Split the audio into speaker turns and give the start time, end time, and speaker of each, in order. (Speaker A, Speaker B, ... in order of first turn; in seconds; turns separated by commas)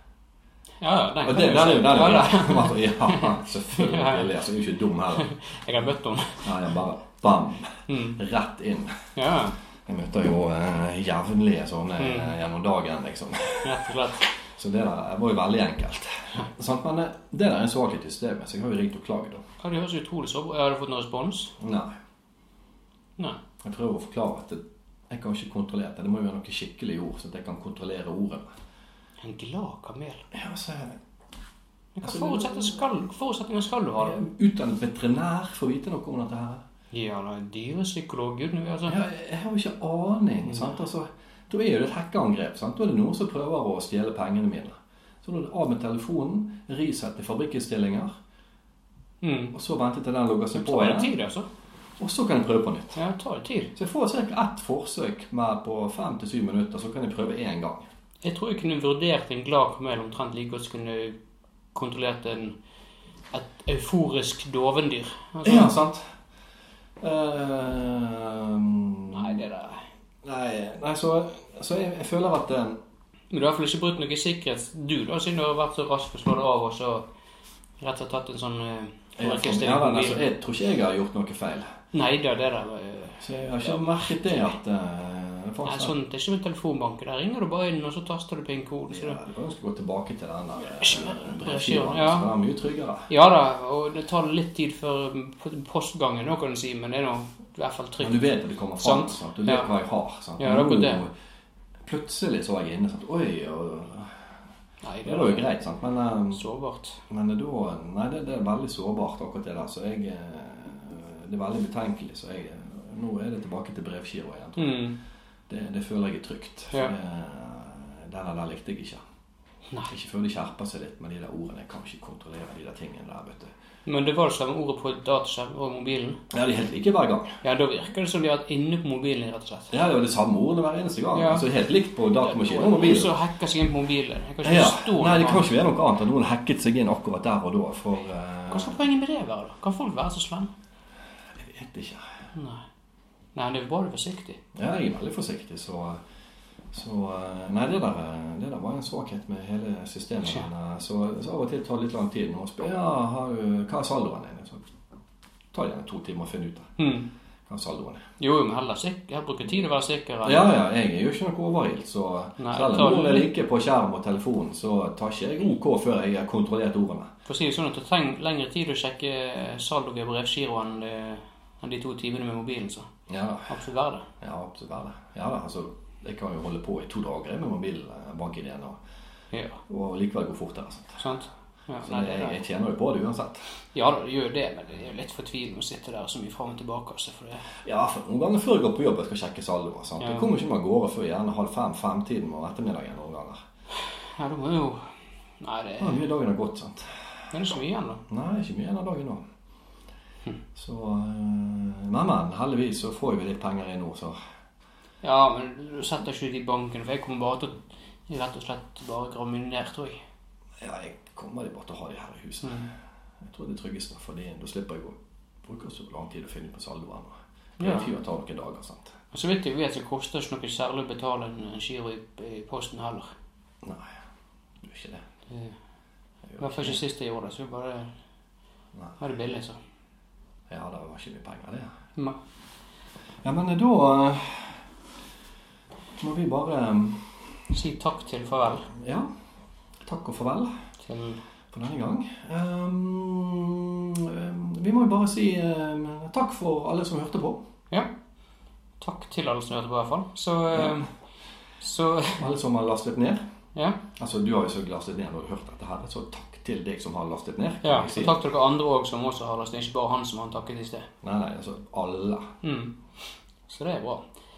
Speaker A: 0.8-4.3, Speaker B: 1.2-5.3, Speaker A: 5.1-6.5, Speaker B: 6.4-9.1, Speaker A: 7.9-8.2, Speaker A: 9.2-9.6, Speaker B: 9.9-19.4, Speaker A: 12.0-12.4, Speaker A: 13.6-14.3, Speaker A: 19.6-21.6, Speaker B: 21.6-21.9, Speaker B: 23.6-28.5, Speaker A: 29.2-30.3, Speaker B: 30.3-31.0, Speaker A: 32.0-34.3, Speaker B: 32.0-32.9, Speaker B: 34.0-36.6, Speaker A: 36.9-39.0, Speaker B: 38.9-48.1, Speaker A: 40.5-40.7, Speaker A: 49.2-49.5, Speaker B: 49.5-51.1, Speaker A: 50.5-51.5, Speaker B: 52.0-53.0, Speaker A: 53.0-53.7, Speaker B: 53.8-57.9, Speaker A: 58.2-61.2, Speaker A: 61.7-62.5, Speaker A: 63.3-65.8, Speaker B: 65.4-66.1, Speaker B: 67.0-69.4, Speaker A: 69.1-69.8, Speaker B: 70.2-72.8, Speaker A: 73.3-77.1, Speaker A: 77.8-80.2, Speaker B: 79.2-81.7, Speaker A: 81.9-84.5, Speaker B: 83.2-85.9, Speaker A: 85.6-89.2, Speaker B: 88.9-93.1, Speaker A: 90.8-92.3, Speaker A: 93.1-98.2, Speaker B: 98.0-101.1, Speaker A: 98.8-99.7, Speaker A: 100.4-101.0, Speaker B: 101.8-104.3, Speaker A: 104.8-105.5, Speaker B: 105.0-106.4, Speaker A: 106.3-107.0, Speaker B: 107.1-114.8, Speaker A: 114.6-115.0, Speaker B: 115.5-119.0, Speaker B: 119.9-123.5, Speaker A: 123.9-126.2, Speaker B: 126.3-127.4, Speaker A: 127.4-129.7, Speaker B: 129.7-133.1, Speaker A: 131.1-131.5, Speaker A: 132.2-135.5, Speaker B: 134.4-138.8, Speaker A: 138.5-140.5, Speaker B: 141.3-142.1, Speaker A: 142.3-142.6, Speaker A: 143.3-144.4, Speaker B: 144.5-146.0, Speaker B: 146.7-154.6, Speaker B: 155.5-156.7, Speaker A: 156.8-157.1, Speaker B: 157.5-158.0, Speaker A: 158.2-160.6, Speaker B: 160.2-167.1, Speaker A: 162.4-163.3, Speaker A: 167.3-172.9, Speaker B: 173.1-173.5, Speaker A: 173.5-174.1, Speaker B: 174.2-178.8, Speaker A: 179.3-179.6, Speaker B: 179.7-181.0, Speaker A: 181.0-182.4, Speaker B: 181.8-183.5, Speaker A: 183.7-187.5, Speaker B: 187.6-193.4, Speaker A: 190.0-190.3, Speaker A: 193.9-194.9, Speaker A: 195.4-196.0, Speaker B: 195.8-197.0, Speaker A: 197.3-198.0, Speaker B: 198.1-199.2, Speaker B: 200.6-204.2, Speaker A: 205.0-210.0, Speaker B: 210.6-212.7, Speaker A: 212.4-212.7, Speaker B: 213.2-218.9, Speaker A: 217.6-217.9, Speaker A: 219.1-223.1, Speaker B: 223.6-223.9, Speaker B: 224.6-225.0, Speaker A: 225.3-225.6, Speaker B: 226.3-226.8, Speaker A: 226.4-227.9, Speaker A: 229.0-229.6, Speaker B: 230.5-231.7, Speaker B: 233.2-234.6, Speaker B: 236.0-237.4, Speaker A: 237.5-238.7, Speaker B: 238.7-239.1, Speaker B: 239.8-240.5, Speaker A: 240.8-241.2, Speaker B: 241.5-247.4, Speaker A: 248.8-250.9, Speaker A: 251.6-252.2, Speaker B: 252.2-253.2, Speaker A: 253.6-253.8, Speaker B: 254.0-258.2, Speaker A: 257.6-260.9, Speaker B: 261.0-262.3, Speaker A: 262.4-262.8, Speaker A: 263.5-264.0